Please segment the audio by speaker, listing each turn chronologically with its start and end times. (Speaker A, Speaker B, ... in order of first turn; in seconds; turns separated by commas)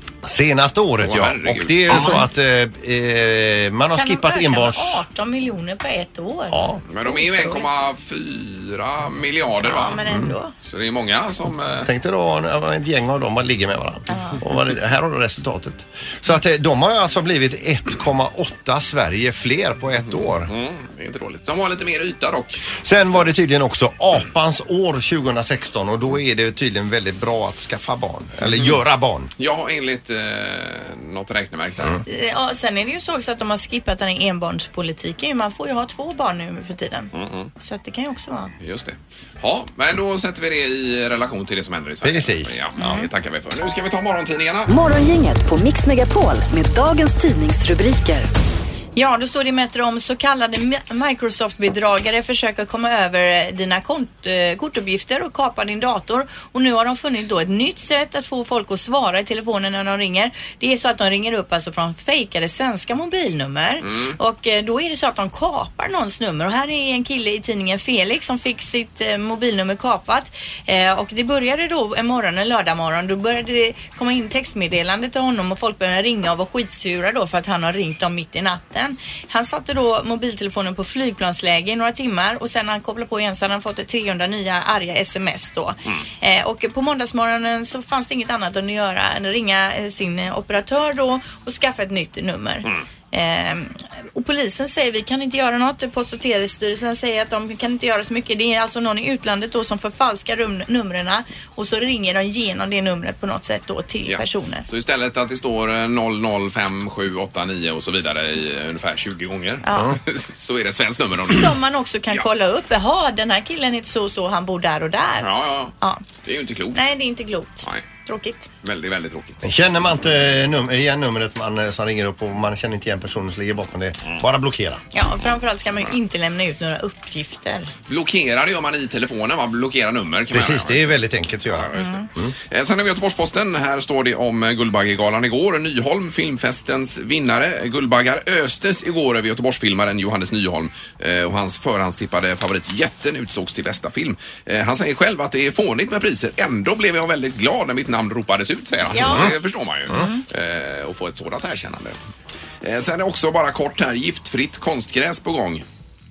Speaker A: 0.2-5.0, Speaker B: 1.0-2.2, Speaker C: 4.0-7.7, Speaker A: 6.5-6.8, Speaker B: 6.9-10.0, Speaker C: 9.6-10.5, Speaker A: 10.0-10.3, Speaker B: 10.6-11.9, Speaker A: 11.8-20.5, Speaker C: 14.1-14.4, Speaker B: 20.4-22.6, Speaker A: 22.8-29.3, Speaker B: 28.4-28.8, Speaker B: 29.4-32.0, Speaker C: 32.1-38.5, Speaker B: 37.1-37.5, Speaker B: 38.6-44.7, Speaker A: 42.0-43.0, Speaker D: 44.7-48.3, Speaker C: 49.0-104.7, Speaker B: 63.8-64.2, Speaker B: 104.1-111.6, Speaker C: 109.7-110.0, Speaker C: 111.3-116.0, Speaker B: 115.2-116.8, Speaker C: 116.7-118.5, Speaker B: 118.6-119.4, Speaker A: 119.4-124.8, Speaker C: 124.9-127.7, Speaker B: 127.9-131.0, Speaker A: 130.3-132.3, Speaker B: 131.5-152.0, Speaker C: 148.9-149.4, Speaker A: 149.0-149.3, Speaker C: 149.9-150.2, Speaker B: 152.6-155.6